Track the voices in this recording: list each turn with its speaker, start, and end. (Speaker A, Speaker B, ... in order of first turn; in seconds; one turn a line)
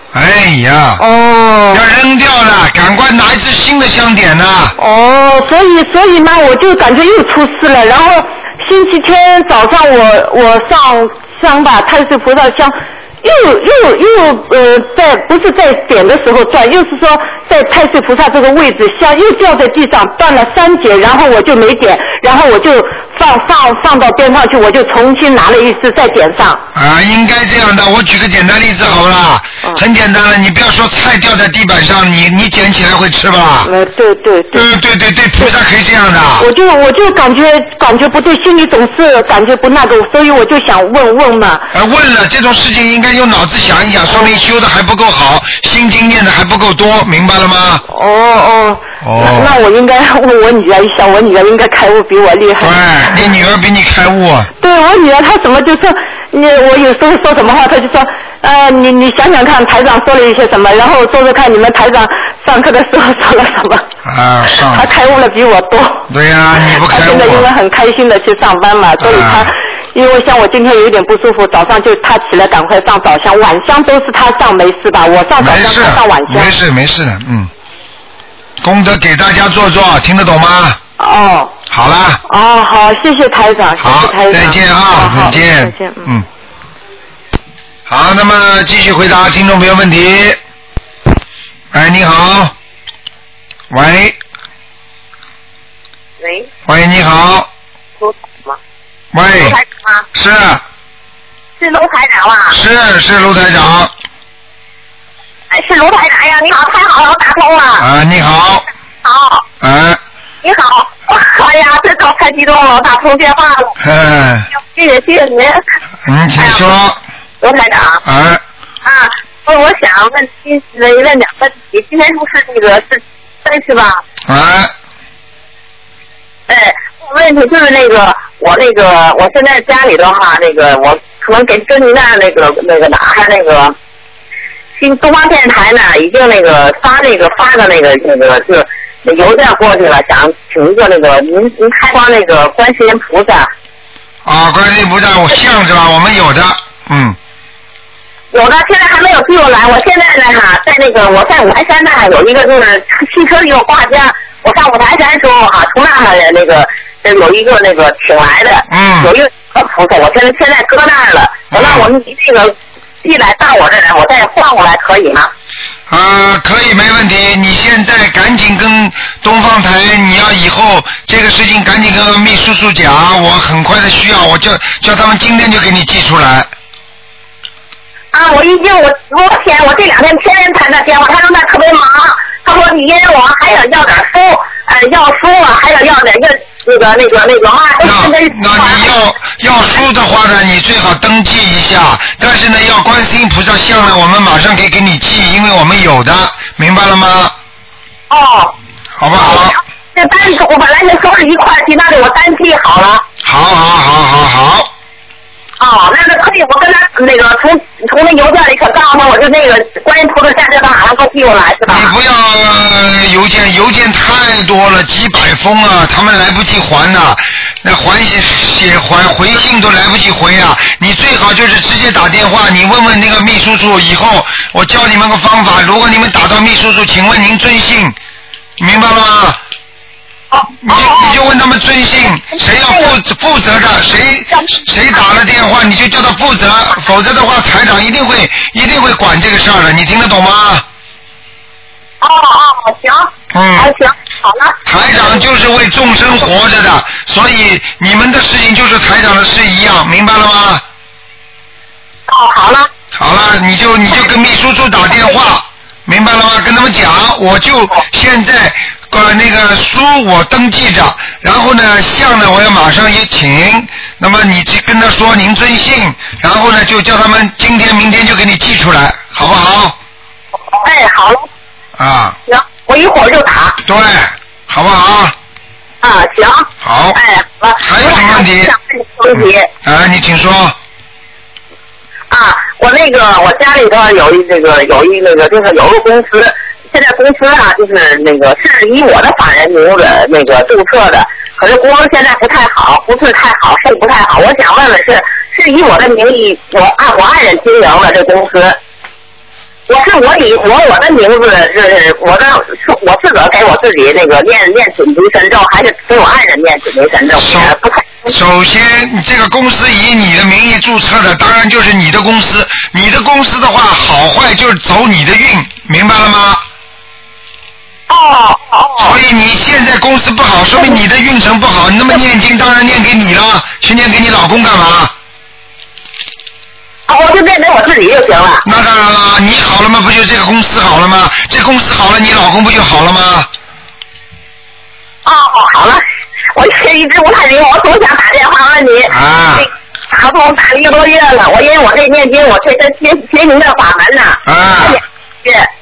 Speaker A: 0.1-1.0
Speaker B: 1.0-1.8
Speaker A: 1.7-4.7
Speaker B: 4.8-26.6
Speaker A: 26.7-33.7
Speaker B: 33.6-34.7
Speaker A: 34.5-36.5
Speaker B: 36.4-41.7
Speaker A: 41.7-47.8
Speaker B: 44.1-44.4
Speaker B: 47.9-53.2
Speaker A: 49.0-49.5
Speaker A: 52.6-54.5
Speaker B: 54.6-63.9
Speaker A: 64.0-64.9
Speaker B: 64.5-66.1
Speaker A: 66.1-67.5
Speaker B: 66.6-76.5
Speaker A: 69.0-69.5
Speaker A: 75.4-77.5
Speaker A: 78.6-80.8
Speaker B: 81.0-81.5
Speaker A: 81.7-82.2
Speaker B: 82.2-86.2
Speaker A: 83.8-86.2
Speaker A: 87.9-90.4
Speaker A: 91.7-92.5
Speaker A: 93.7-94.2
Speaker C: 96.2-96.5
Speaker A: 96.7-97.5
Speaker C: 98.0-98.6
Speaker A: 99.1-99.6
Speaker C: 99.3-100.0
Speaker A: 100.1-100.6
Speaker C: 101.6-102.5
Speaker A: 102.5-103.9
Speaker C: 105.5-107.8
Speaker A: 107.8-108.6
Speaker C: 109.0-109.4
Speaker A: 109.6-110.0
Speaker C: 110.4-113.7
Speaker A: 113.8-114.5
Speaker C: 114.5-115.6
Speaker A: 116.0-117.0
Speaker C: 116.4-116.6
Speaker C: 117.4-118.0
Speaker A: 118.0-118.4
Speaker C: 118.8-124.0
Speaker A: 124.2-124.7
Speaker C: 126.5-133.7
Speaker C: 134.8-143.5
Speaker A: 144.2-147.2
Speaker C: 148.3-165.3
Speaker A: 158.7-159.1
Speaker A: 161.5-161.8
Speaker A: 165.9-176.5
Speaker C: 178.1-188.9
Speaker A: 187.8-197.3
Speaker C: 198.1-198.6
Speaker A: 199.0-199.6
Speaker C: 199.2-203.0
Speaker A: 203.2-204.7
Speaker C: 205.6-211.9
Speaker A: 211.7-227.9
Speaker A: 228.6-229.4
Speaker C: 230.3-231.2
Speaker A: 230.6-240.6
Speaker C: 232.3-232.9
Speaker C: 242.0-245.2
Speaker A: 243.3-243.7
Speaker A: 244.6-250.6
Speaker C: 252.1-252.7
Speaker A: 252.9-269.8
Speaker C: 270.5-271.3
Speaker A: 271.8-272.2
Speaker C: 272.3-273.6
Speaker A: 273.6-275.1
Speaker C: 275.8-279.5
Speaker A: 276.6-277.0
Speaker A: 277.6-278.5
Speaker A: 279.1-280.6
Speaker C: 282.1-298.6
Speaker C: 299.7-308.1
Speaker A: 307.2-316.4
Speaker C: 317.9-318.9
Speaker A: 318.8-324.9
Speaker C: 326.9-328.4
Speaker A: 328.4-333.3
Speaker C: 335.0-335.8
Speaker C: 336.3-345.5
Speaker A: 338.9-339.5
Speaker A: 344.2-344.8